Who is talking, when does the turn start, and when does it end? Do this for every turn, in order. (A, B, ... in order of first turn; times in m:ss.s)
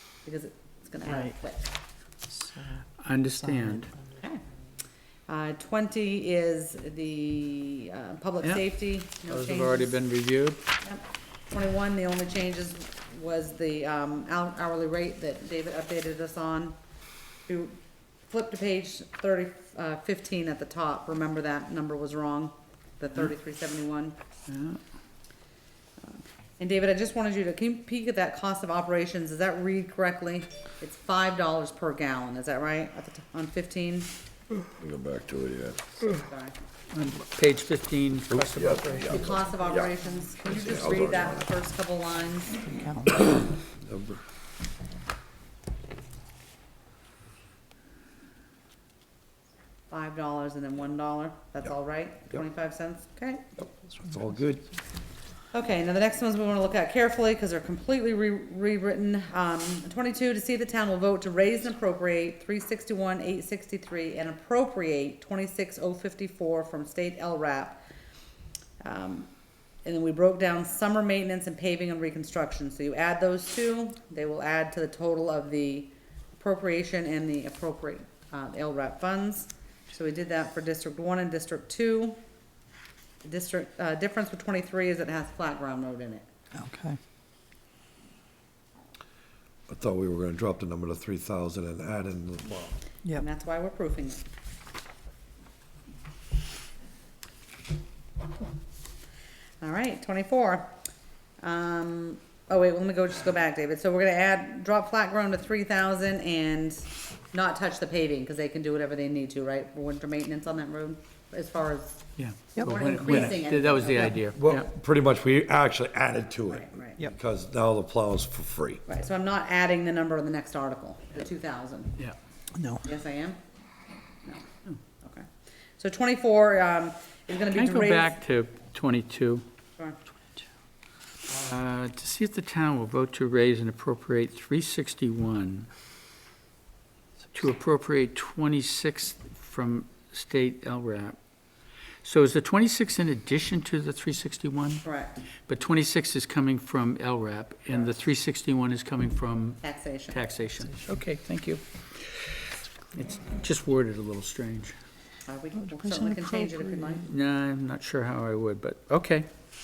0:00.2-0:01.7 A
0:01.1-0:01.3 B
0:02.3-0:02.9 B
0:03.0-0:03.9 C
0:03.4-0:04.0 B
0:05.3-0:10.0 A
0:09.2-0:10.6 C
0:10.8-0:16.8 A
0:17.5-0:24.2 A
0:24.5-0:24.8 C
0:26.0-0:34.1 A
0:34.8-0:36.0 D
0:36.0-0:36.6 A
0:36.9-0:39.1 C
0:38.3-0:41.5 D
0:39.1-0:42.6 A
0:42.6-0:43.4 B
0:43.8-0:44.2 D
0:49.9-0:53.4 A
0:54.0-0:54.7 D
0:55.5-1:07.8 A
1:08.8-1:09.3 A
1:09.8-1:22.2 A
1:23.2-1:26.3 A
1:26.5-1:27.0 B
1:29.7-1:32.8 D
1:33.2-1:34.2 A
1:39.6-1:40.7 A
1:41.4-1:54.2 A
1:52.2-1:54.6 C
1:52.6-1:53.3 B
1:54.4-1:58.8 D
1:56.5-1:57.0 A
1:58.9-2:02.0 A
2:02.6-2:02.8 B
2:02.8-2:03.4 A
2:04.2-2:08.2 A
2:07.5-2:09.4 C
2:11.3-2:15.7 C
2:17.3-2:21.2 C
2:22.0-2:24.8 C
2:24.8-2:25.2 A
2:25.5-2:32.4 C
2:29.6-2:30.2 A
2:32.9-2:34.8 C
2:35.3-2:37.1 A
2:35.6-2:37.0 B
2:37.1-2:39.3 C